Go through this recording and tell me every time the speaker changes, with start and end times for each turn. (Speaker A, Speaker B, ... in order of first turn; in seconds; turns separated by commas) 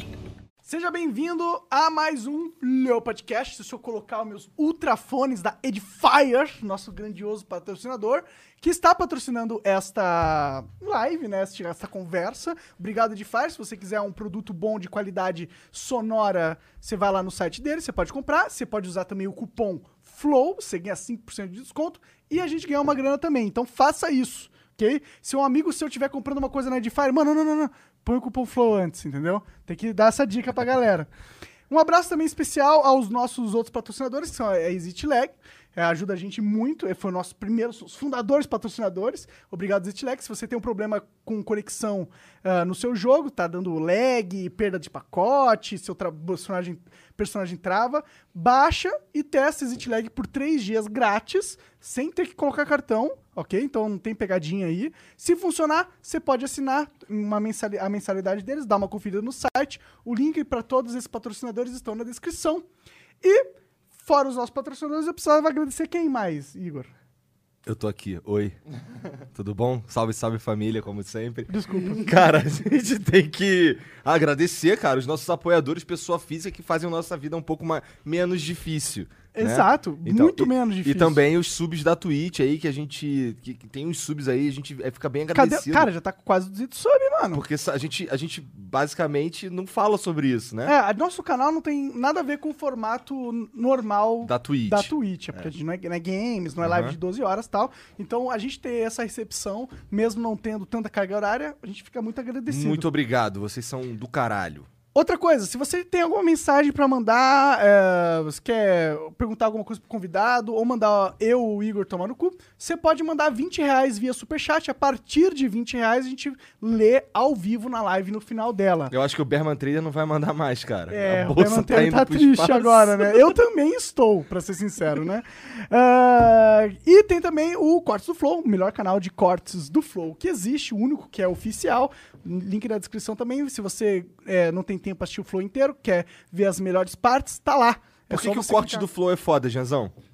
Speaker A: 0.6-31.1, Speaker A: 31.7-62.6, Speaker A: 63.2-66.9, Speaker B: 67.7-68.6, Speaker B: 69.3-85.9, Speaker A: 71.5-72.2, Speaker A: 79.4-81.2, Speaker A: 85.3-87.4, Speaker B: 87.3-90.8, Speaker A: 90.6-102.9, Speaker B: 94.2-95.4, Speaker B: 96.6-97.0, Speaker B: 102.5-104.7, Speaker A: 104.9-118.9, Speaker B: 118.9-123.3, Speaker A: 120.9-138.8, Speaker B: 138.1-139.9